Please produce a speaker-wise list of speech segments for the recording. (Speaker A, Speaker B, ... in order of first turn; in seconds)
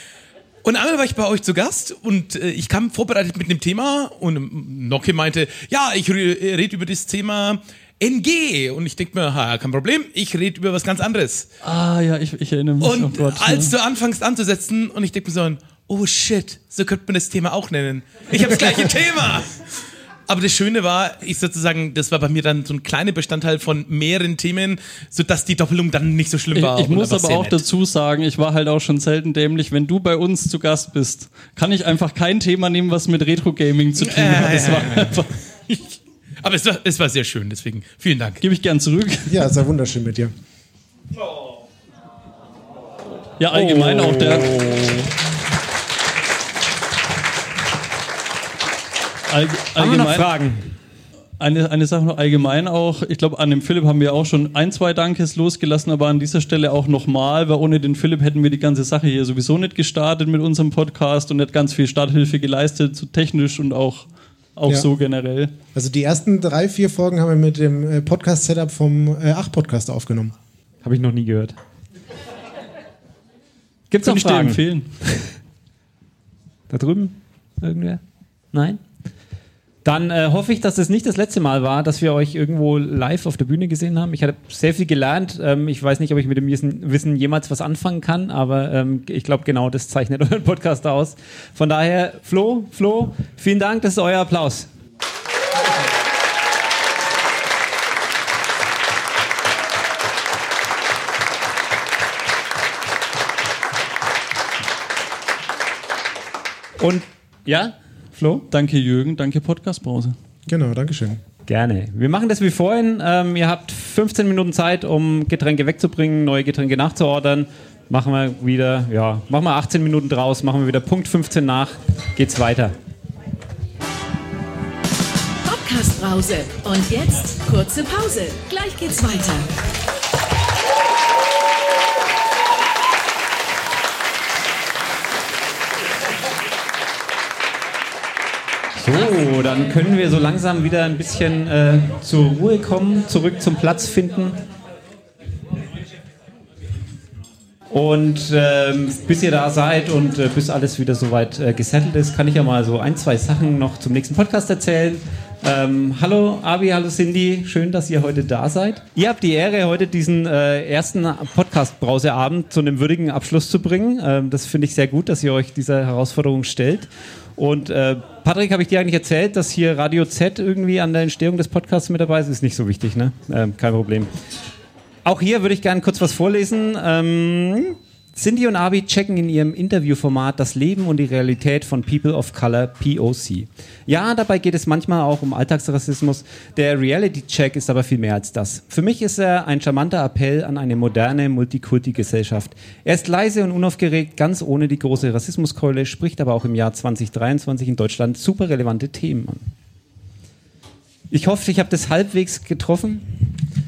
Speaker A: 0.6-11.5, 12.8-19.6, 20.3-27.6, 33.9-38.4
Speaker B: 11.6-13.7, 26.5-35.3, 38.4-39.4, 43.4-44.7, 49.3-50.3, 51.4-65.5, 74.0-74.9, 108.5-110.2
Speaker C: 39.3-40.3, 43.8-44.2, 65.7-70.3, 110.5-111.2
Speaker D: 43.6-44.8, 49.8-50.7, 70.8-71.5, 73.9-74.6, 76.7-78.0, 78.5-78.8, 79.8-94.7, 106.8-108.4, 111.4-122.7, 138.8-144.4, 147.7-174.1, 175.0-199.5, 201.1-203.4
Speaker E: 125.4-129.5